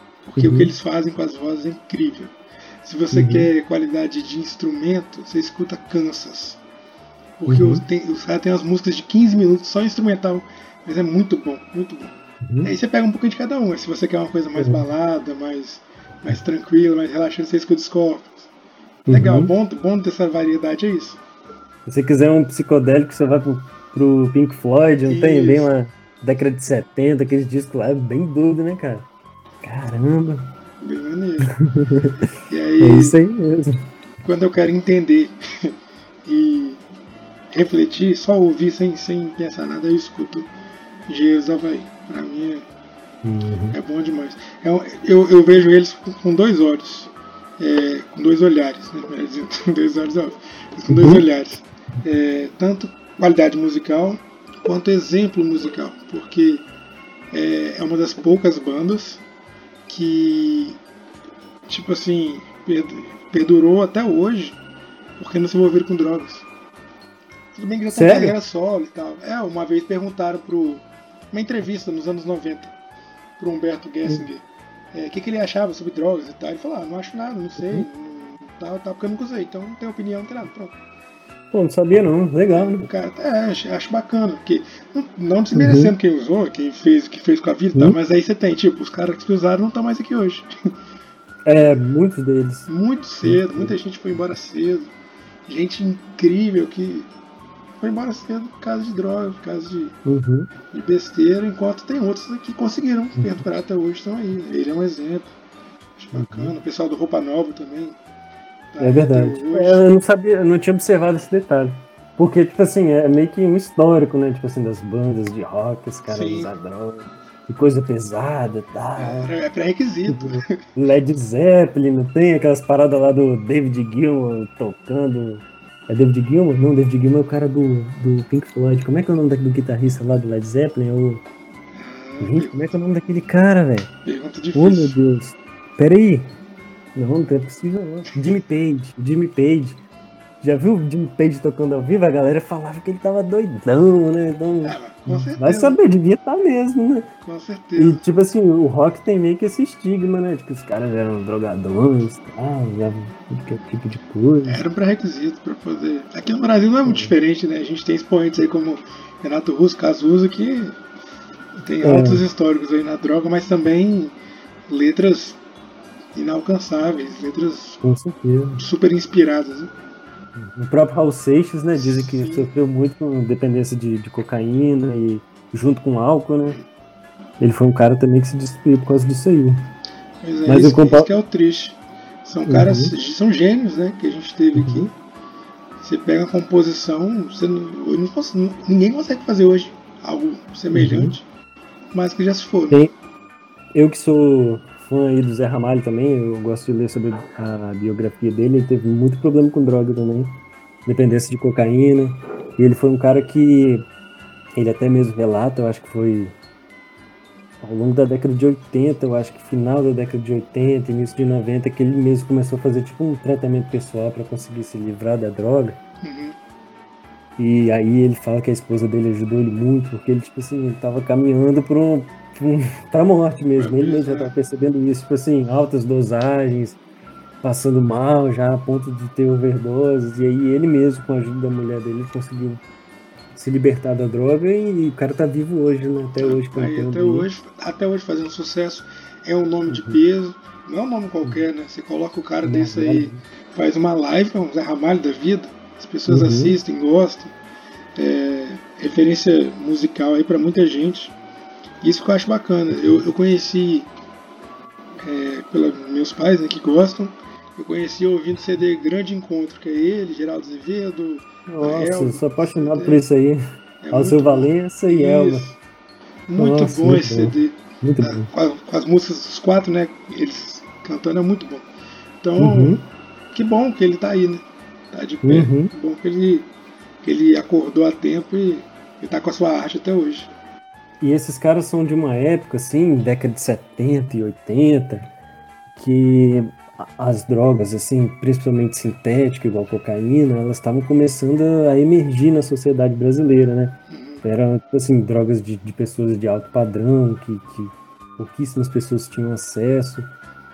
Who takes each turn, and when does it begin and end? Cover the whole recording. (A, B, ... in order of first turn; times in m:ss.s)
0:00.3-0:06.6 A
0:00.4-0:00.7 B
0:03.1-0:03.5 B
0:07.4-0:18.5 A
0:07.5-0:07.8 B
0:12.4-0:12.7 B
0:14.6-0:14.8 B
0:19.1-0:19.5 B
0:19.1-0:21.2 A
0:21.8-0:29.1 B
0:25.1-0:25.7 A
0:29.6-0:30.5 B
0:30.8-0:31.5 A
0:31.5-0:32.3 B
0:32.4-0:33.2 A
0:32.8-0:33.9 B
0:34.2-0:36.8 A
0:37.5-0:40.5 A
0:41.1-0:42.6 A
0:43.2-0:43.8 B
0:43.7-0:56.6 A
0:50.9-0:51.2 B
0:57.3-0:59.2 A
0:59.9-1:00.8 A
1:01.7-1:04.6 A
1:05.2-1:06.5 A
1:07.5-1:12.7 A
1:07.9-1:08.4 B
1:13.4-1:20.7 A
1:17.6-1:17.8 B
1:21.5-1:22.9 B
1:22.5-1:30.5 A
1:25.5-1:25.9 B
1:31.4-1:32.7 B
1:32.7-1:34.9 A
1:33.2-1:33.7 B
1:35.5-1:37.1 A
1:37.8-1:40.0 A
1:40.0-1:40.5 B
1:40.7-1:45.3 A
1:46.0-1:48.0 A
1:46.1-1:46.5 B
1:48.7-1:49.8 A
1:48.8-1:59.3 B
1:56.1-1:56.5 A
1:59.0-2:00.6 A
2:00.1-2:11.2 B
2:11.7-2:12.8 A
2:12.2-2:13.9 B
2:14.0-2:15.0 A
2:14.5-2:16.3 B
2:16.9-2:19.8 B
2:20.4-2:27.1 B
2:24.6-2:25.8 A
2:27.2-2:28.0 A
2:27.8-2:34.6 B
2:34.4-2:40.8 A
2:36.8-2:37.1 B
2:41.6-2:44.1 A
2:41.8-2:42.2 B
2:44.7-2:45.4 A
2:46.1-2:47.8 A
2:47.8-2:48.6 B
2:48.6-2:49.7 A
2:50.4-2:56.6 B
2:51.7-2:52.5 A
2:57.4-2:59.6 B
3:00.2-3:04.9 A
3:00.5-3:01.1 B
3:02.5-3:02.9 B
3:04.5-3:04.9 B
3:05.8-3:11.2 A
3:10.7-3:11.1 B
3:11.9-3:12.8 A
3:13.7-3:23.8 B
3:24.5-3:26.4 B
3:27.6-3:35.8 B
3:36.0-3:36.4 A
3:37.4-3:46.8 B
3:43.6-3:44.3 A
3:47.4-3:52.6 B
3:53.3-3:57.3 B
3:56.2-4:07.3 A
3:59.7-4:00.0 B
4:02.4-4:03.2 B
4:06.1-4:06.6 B
4:08.0-4:11.2 A
4:11.8-4:13.9 A
4:12.7-4:13.0 B
4:15.0-4:23.0 A
4:21.5-4:23.4 B
4:23.8-4:25.6 A
4:23.9-4:25.5 B
4:26.3-4:31.6 A
4:26.4-4:28.3 B
4:32.2-4:36.5 A
4:32.4-4:32.8 B
4:35.2-4:35.7 B
4:37.0-4:40.3 A
4:41.0-4:45.1 B
4:45.7-5:00.1 B
4:53.9-4:54.2 A